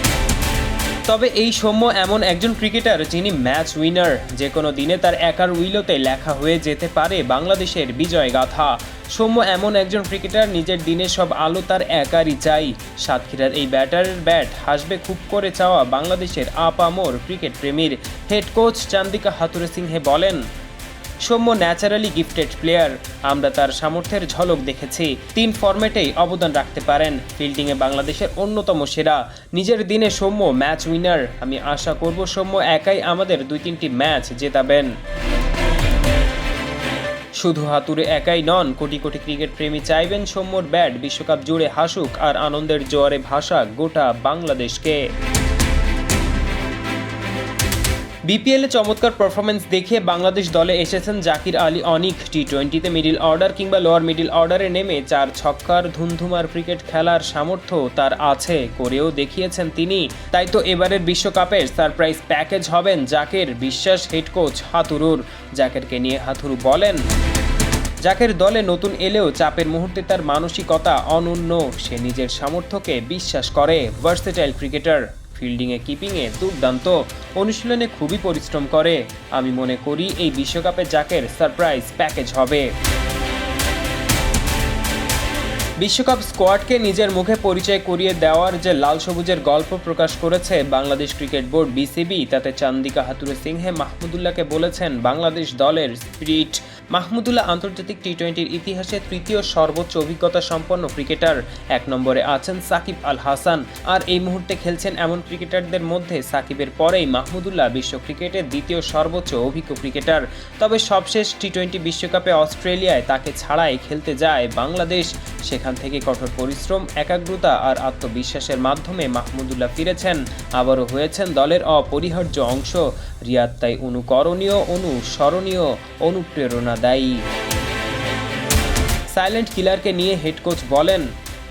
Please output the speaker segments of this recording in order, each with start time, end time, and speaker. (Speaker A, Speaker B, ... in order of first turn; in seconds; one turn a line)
Speaker A: 1.1-20.4
Speaker A: 21.2-34.9
Speaker A: 37.4-45.0
Speaker A: 48.3-67.0
Speaker A: 68.0-82.7
Speaker A: 85.8-127.2
Speaker A: 129.1-131.1